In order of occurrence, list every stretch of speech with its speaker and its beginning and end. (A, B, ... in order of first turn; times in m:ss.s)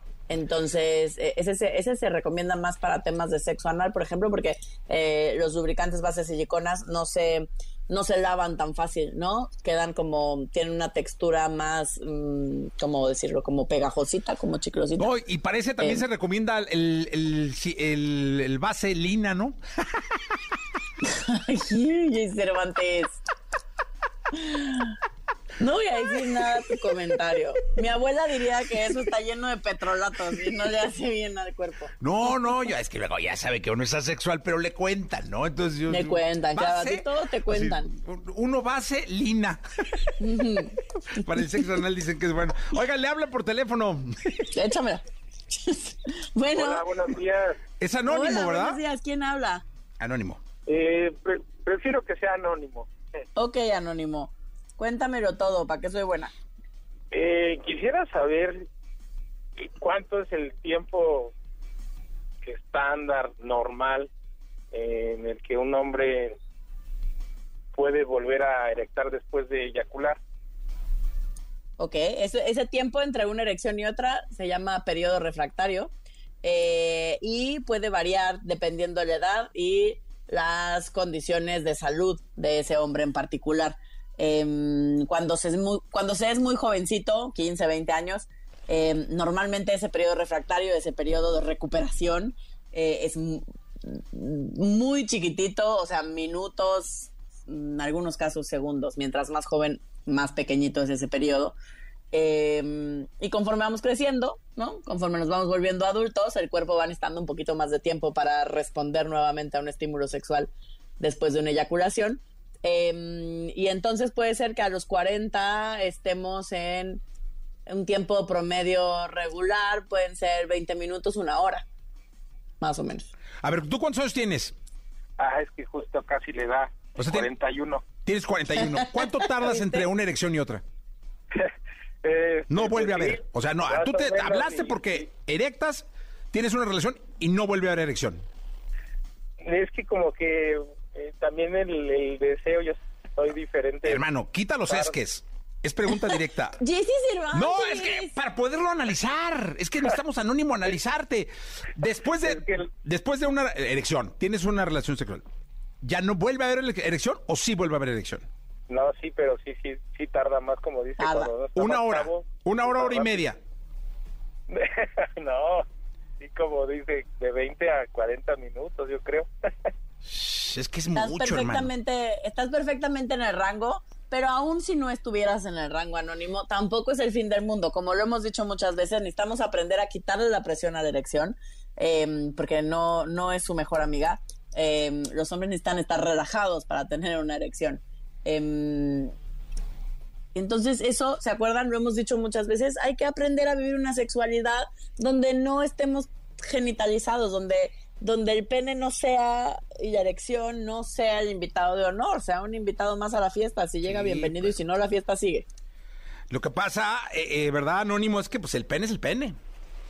0:00.3-0:15.1 A
0:15.0-0:19.6 B
0:15.8-0:16.0 A
0:21.1-0:23.2 A
0:24.3-0:25.0 A
0:25.6-0:31.9 A
0:32.0-0:40.1 B
0:35.9-0:37.9 A
0:40.2-0:41.3 A
0:41.1-0:44.5 B
0:44.5-0:46.9 A
0:46.5-0:47.6 C
0:47.8-0:48.8 B
0:48.1-0:49.6 A
0:50.0-0:50.4 B
0:50.7-0:52.9 C
0:53.4-0:56.3 A
0:57.1-0:58.6 C
0:59.6-1:01.3 C
1:02.4-1:04.1 C
1:04.7-1:06.4 C
1:07.7-1:10.2 C
1:11.8-1:15.9 A
1:16.4-1:41.6 A
1:42.1-1:57.0 A
1:57.7-2:01.6 A
2:02.6-2:03.1 A
2:03.4-2:04.6 B
2:05.2-2:07.9 C
2:07.0-2:07.3 B
2:08.0-2:10.6 B
2:08.6-2:09.9 A
2:12.0-2:15.1 C
2:12.5-2:18.2 B
2:19.4-2:24.0 C
2:23.8-2:26.6 B
2:24.7-2:24.9 C
2:26.6-2:28.2 A
2:27.3-2:35.2 B
2:32.2-2:32.7 C
2:35.8-2:38.3 B
2:38.7-2:43.2 C
2:41.0-2:41.3 A
2:41.5-2:43.4 B
2:44.5-2:45.6 C
2:46.2-2:49.3 C
2:50.1-2:51.7 B
2:51.0-3:09.1 A
3:10.4-3:25.5 A
3:23.8-3:24.6 B
3:26.3-3:29.4 B